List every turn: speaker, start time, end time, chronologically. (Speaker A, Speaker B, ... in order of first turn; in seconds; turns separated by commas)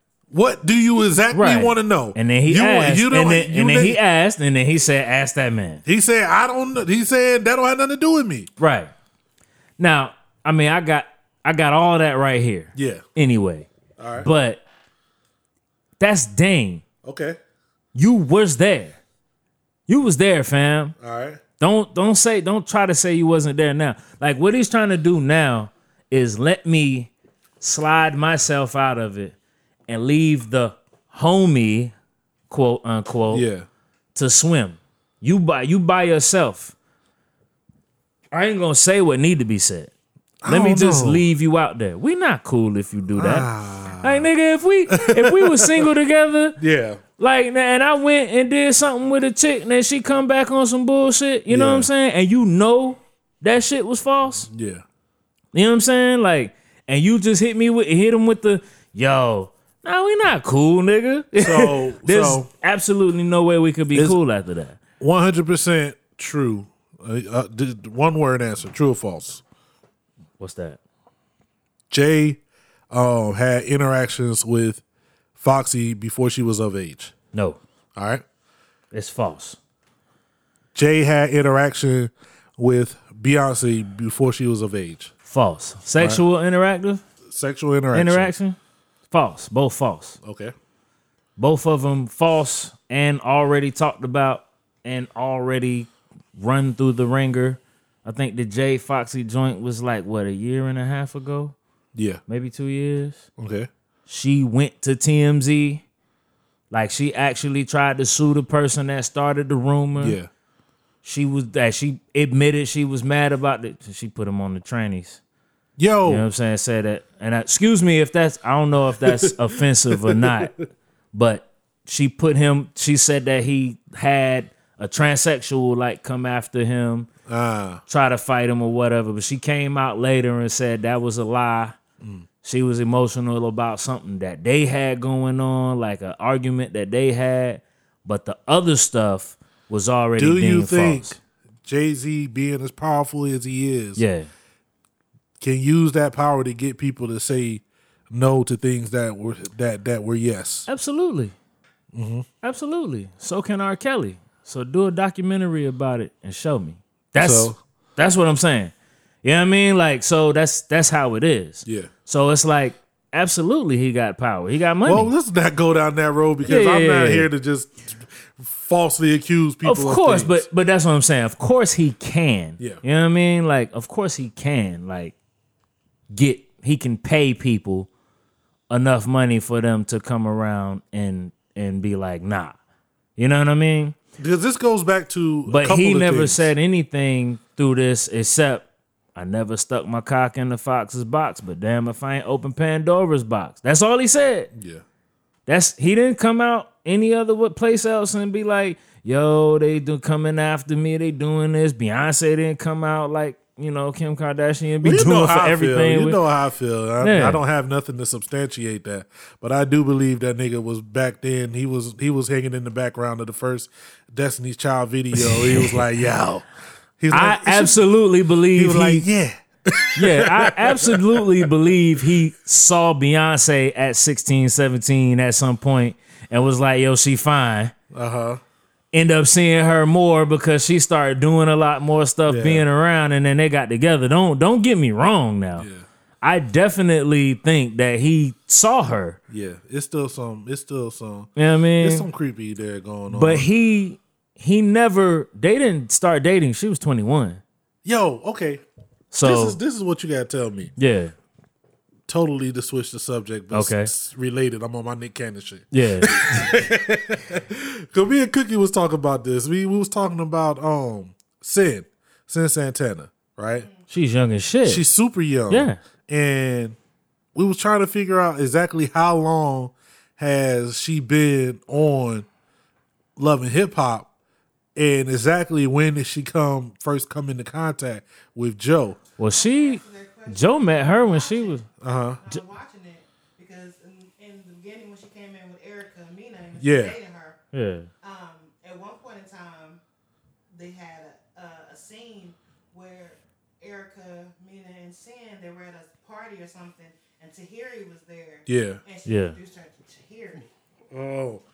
Speaker A: 0.3-4.0, Speaker B: 1.3-5.8, Speaker A: 5.8-8.5, Speaker B: 8.6-8.9, Speaker B: 9.8-13.7, Speaker A: 12.8-13.0, Speaker A: 14.0-14.3, Speaker B: 14.2-14.6, Speaker B: 16.0-16.8, Speaker A: 17.0-17.4, Speaker B: 17.9-19.0, Speaker B: 19.9-20.9, Speaker A: 21.0-21.4, Speaker B: 21.6-29.4, Speaker B: 29.9-31.9, Speaker B: 32.5-33.5, Speaker A: 33.3-33.7, Speaker B: 34.1-36.7, Speaker B: 38.3-39.9, Speaker A: 40.4-41.2, Speaker B: 40.5-43.5, Speaker A: 43.1-44.3, Speaker B: 44.0-46.6, Speaker A: 44.9-45.9, Speaker A: 46.6-47.0, Speaker B: 47.2-54.5, Speaker A: 51.5-51.9, Speaker A: 54.5-54.8, Speaker B: 55.5-64.8, Speaker A: 61.4-62.5, Speaker A: 65.0-69.4, Speaker B: 70.4-70.8, Speaker A: 71.9-72.4, Speaker A: 72.9-74.8, Speaker A: 75.4-77.1, Speaker B: 77.3-77.6, Speaker A: 78.0-78.2, Speaker B: 78.9-79.6, Speaker A: 80.8-85.1, Speaker B: 85.3-87.0, Speaker A: 87.3-88.3, Speaker B: 87.9-88.6, Speaker B: 89.1-90.2, Speaker A: 90.2-90.5, Speaker B: 91.4-101.6, Speaker A: 102.0-102.2, Speaker B: 102.3-103.3, Speaker A: 103.4-103.7, Speaker B: 104.1-105.8, Speaker B: 106.7-110.2, Speaker A: 110.0-110.3, Speaker B: 111.0-115.2, Speaker A: 115.8-116.2, Speaker B: 116.0-120.5, Speaker A: 119.0-120.6, Speaker B: 121.1-127.1, Speaker A: 127.3-127.8, Speaker B: 127.9-131.8, Speaker A: 132.0-132.2, Speaker B: 132.4-141.2, Speaker A: 140.2-144.0, Speaker B: 144.0-144.3, Speaker A: 145.4-150.7, Speaker B: 150.7-151.3, Speaker A: 151.9-152.3, Speaker B: 152.4-158.7, Speaker A: 157.2-157.6, Speaker B: 159.2-165.1, Speaker A: 161.7-161.9, Speaker A: 164.8-170.4, Speaker B: 166.4-167.3, Speaker B: 169.6-175.1, Speaker B: 176.1-177.9, Speaker B: 178.7-182.6, Speaker B: 183.2-184.0, Speaker A: 184.2-186.5, Speaker B: 185.5-194.5, Speaker A: 194.6-194.8, Speaker B: 195.5-206.2, Speaker A: 204.8-216.5, Speaker B: 207.0-207.4, Speaker B: 215.2-215.8, Speaker A: 217.0-217.8, Speaker B: 217.1-219.1, Speaker A: 218.6-221.5, Speaker B: 220.0-227.7, Speaker A: 227.9-228.4, Speaker B: 228.9-235.7, Speaker A: 232.3-232.7, Speaker A: 235.6-235.8, Speaker B: 236.2-239.2, Speaker A: 239.3-241.3, Speaker B: 241.4-242.1, Speaker A: 241.8-243.5, Speaker B: 243.1-247.4, Speaker A: 247.8-248.6, Speaker B: 249.1-249.6, Speaker A: 249.2-250.7, Speaker B: 250.8-251.1, Speaker A: 252.1-263.7, Speaker B: 253.5-253.9, Speaker B: 255.7-256.6, Speaker B: 263.9-264.8, Speaker A: 264.6-266.8, Speaker B: 265.5-265.8, Speaker A: 267.4-272.3, Speaker A: 273.2-274.1, Speaker A: 274.8-279.0, Speaker B: 279.2-281.6, Speaker C: 279.3-287.4, Speaker A: 281.8-282.2, Speaker A: 286.6-287.0, Speaker B: 287.5-287.9, Speaker C: 288.0-289.8, Speaker C: 290.5-300.5, Speaker A: 298.5-298.8, Speaker B: 299.1-299.4, Speaker A: 300.9-301.4